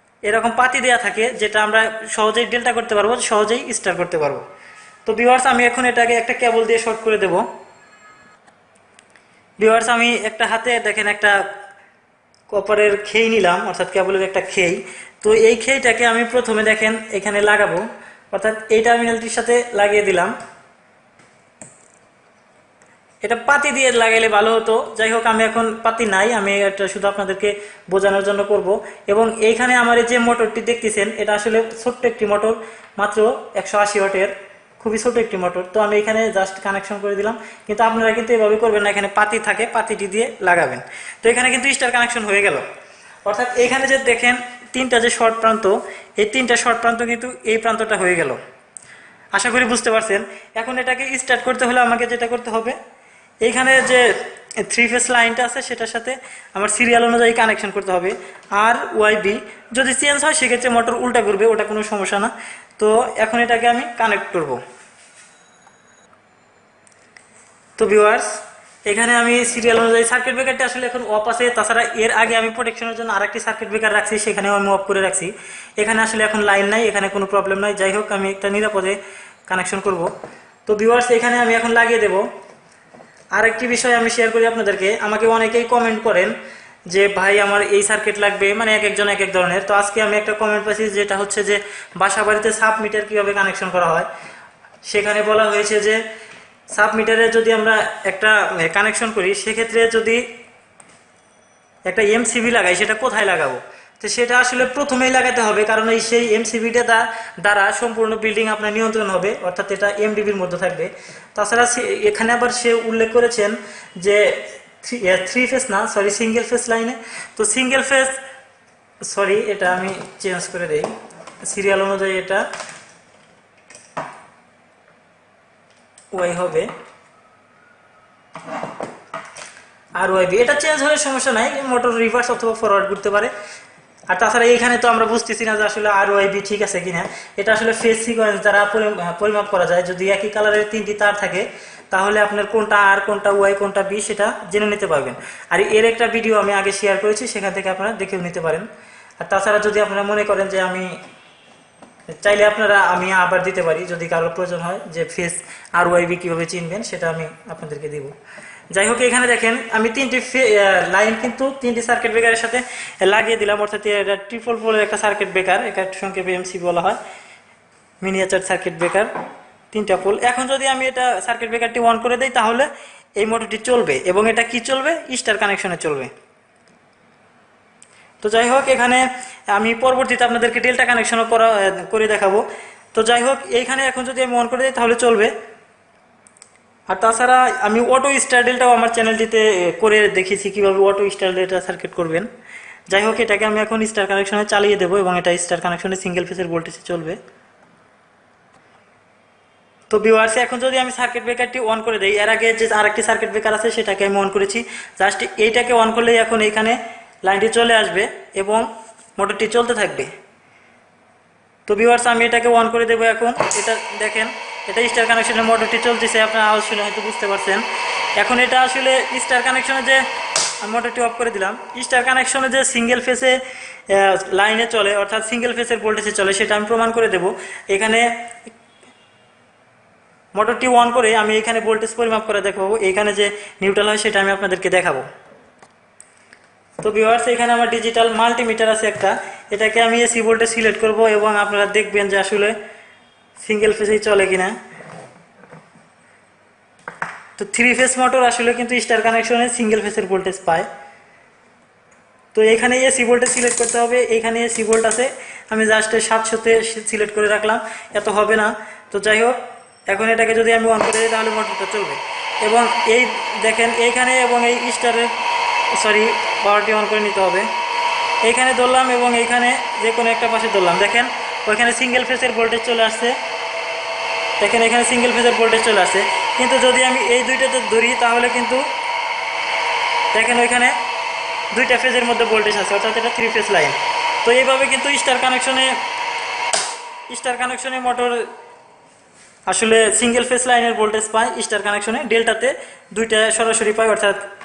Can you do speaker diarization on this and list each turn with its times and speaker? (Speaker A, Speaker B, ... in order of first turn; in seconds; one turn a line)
Speaker A: 0.3-4.4
Speaker A: 5.0-7.4
Speaker A: 9.6-11.4
Speaker A: 12.5-20.3
Speaker A: 23.2-42.6
Speaker A: 43.2-48.4
Speaker A: 49.3-52.8
Speaker A: 53.4-64.6
Speaker A: 67.8-79.0
Speaker A: 79.5-80.1
Speaker A: 80.7-82.2
Speaker A: 83.3-86.3
Speaker A: 86.9-94.1
Speaker A: 94.8-96.0
Speaker A: 96.7-100.2
Speaker A: 101.9-118.2
Speaker A: 119.0-120.9
Speaker A: 121.4-122.5
Speaker A: 126.1-126.7
Speaker A: 130.0-133.3
Speaker A: 134.1-148.7
Speaker A: 149.2-151.0
Speaker A: 152.1-158.1
Speaker A: 158.7-167.0
Speaker A: 168.0-169.1
Speaker A: 169.7-176.1
Speaker A: 178.2-185.3
Speaker A: 186.9-192.3
Speaker A: 192.9-197.2
Speaker A: 199.9-210.1
Speaker A: 211.7-217.6
Speaker A: 218.2-220.0
Speaker A: 220.6-223.4
Speaker A: 223.9-228.1
Speaker A: 230.3-235.1
Speaker A: 236.8-242.5
Speaker A: 243.4-244.6
Speaker A: 247.4-250.7
Speaker A: 252.3-265.1
Speaker A: 265.7-267.5
Speaker A: 268.2-273.1
Speaker A: 274.4-278.6
Speaker A: 280.1-280.7
Speaker A: 281.5-285.7
Speaker A: 287.1-288.3
Speaker A: 289.5-294.2